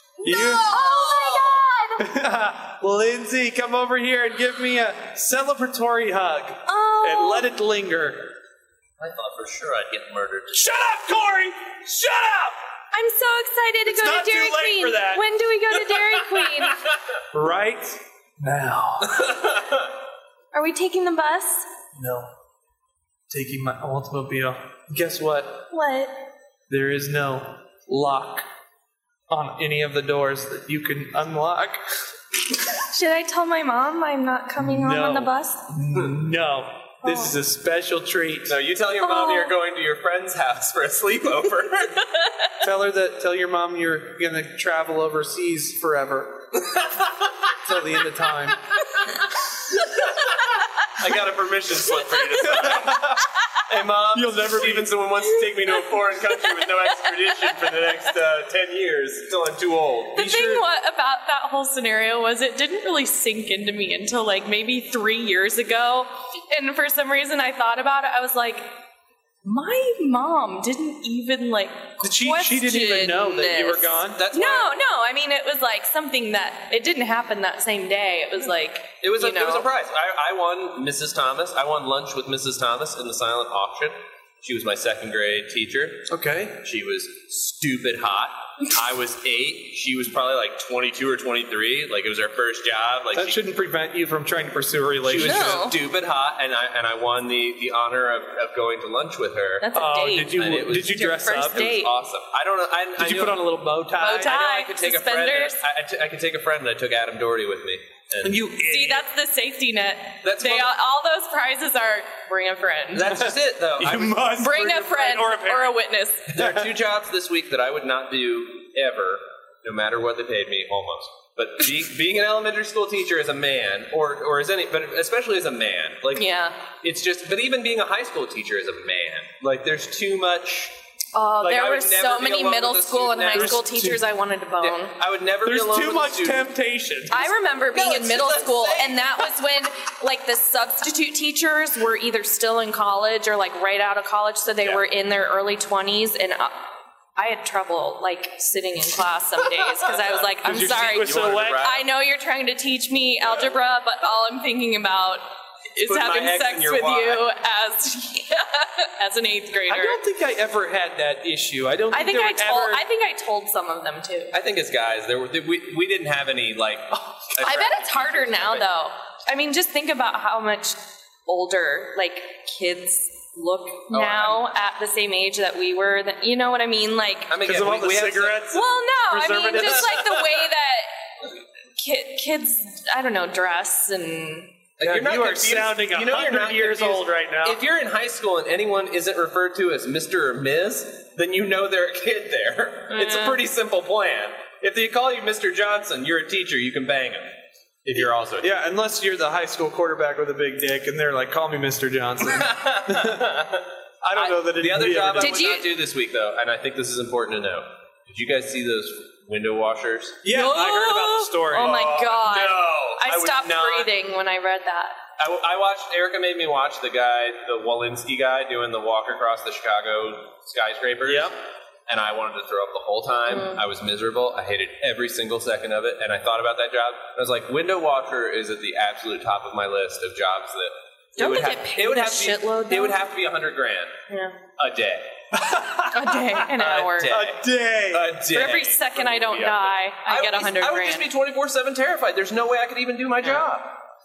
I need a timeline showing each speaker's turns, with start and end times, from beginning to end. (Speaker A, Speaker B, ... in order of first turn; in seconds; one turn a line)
Speaker A: 0.2-0.7
Speaker B: 0.2-2.1
Speaker C: 0.3-1.6
Speaker A: 2.0-8.3
Speaker B: 6.7-7.5
Speaker C: 9.0-10.8
Speaker A: 10.5-12.6
Speaker B: 12.9-16.8
Speaker A: 13.9-15.2
Speaker A: 17.3-19.3
Speaker C: 19.1-19.9
Speaker B: 20.5-21.7
Speaker A: 21.9-22.3
Speaker A: 23.3-25.6
Speaker B: 25.7-26.1
Speaker A: 26.7-28.4
Speaker A: 29.3-31.8
Speaker B: 32.7-35.7
Speaker A: 34.6-38.5
Speaker B: 37.0-37.3
Speaker C: 38.5-42.0
Speaker B: 39.0-39.5
Speaker A: 42.6-46.5
Speaker C: 46.7-47.7
Speaker A: 47.6-48.6
Speaker C: 50.1-50.5
Speaker C: 51.0-53.1
Speaker A: 52.4-53.3
Speaker C: 53.7-60.2
Speaker A: 54.1-54.9
Speaker B: 55.4-58.0
Speaker A: 60.1-60.6
Speaker B: 60.2-68.7
Speaker B: 69.4-79.7
Speaker A: 72.0-74.2
Speaker C: 74.2-74.7
Speaker C: 79.0-86.1
Speaker A: 86.1-86.6
Speaker C: 86.6-93.4
Speaker A: 93.1-95.6
Speaker C: 95.0-99.7
Speaker B: 95.2-95.8
Speaker B: 99.6-101.9
Speaker A: 99.8-101.7
Speaker C: 100.3-103.4
Speaker A: 103.0-104.4
Speaker B: 104.0-105.6
Speaker C: 104.2-108.4
Speaker A: 108.2-109.0
Speaker B: 108.5-113.2
Speaker C: 110.2-110.7
Speaker C: 112.9-114.4
Speaker A: 113.1-115.8
Speaker B: 114.4-116.4
Speaker C: 116.3-130.8
Speaker A: 116.4-116.7
Speaker B: 126.2-126.6
Speaker B: 131.1-134.9
Speaker C: 131.4-133.6
Speaker A: 133.3-134.0
Speaker C: 134.6-136.5
Speaker A: 135.4-137.3
Speaker B: 137.1-146.6
Speaker C: 137.7-139.3
Speaker B: 147.2-155.2
Speaker C: 149.6-151.9
Speaker A: 150.4-151.7
Speaker B: 155.7-160.0
Speaker C: 155.8-157.2
Speaker A: 159.7-162.8
Speaker B: 161.9-164.3
Speaker C: 164.3-168.7
Speaker B: 167.4-177.4
Speaker C: 173.9-174.4
Speaker C: 177.3-178.6
Speaker A: 177.4-180.2
Speaker B: 178.5-181.0
Speaker B: 181.8-184.5
Speaker C: 184.8-198.5
Speaker A: 184.8-187.6
Speaker B: 192.9-193.4
Speaker A: 198.4-203.3
Speaker C: 202.3-210.2
Speaker A: 204.0-205.5
Speaker B: 205.2-205.7
Speaker A: 210.2-211.9
Speaker B: 210.3-215.0
Speaker C: 211.5-213.9
Speaker C: 215.2-221.3
Speaker A: 221.1-221.3
Speaker C: 221.9-234.0
Speaker B: 223.3-223.6
Speaker B: 231.2-233.0
Speaker B: 234.1-234.4
Speaker C: 234.6-235.1
Speaker A: 235.3-236.4
Speaker B: 235.9-237.2
Speaker C: 236.5-243.7
Speaker A: 237.1-238.2
Speaker B: 238.3-241.1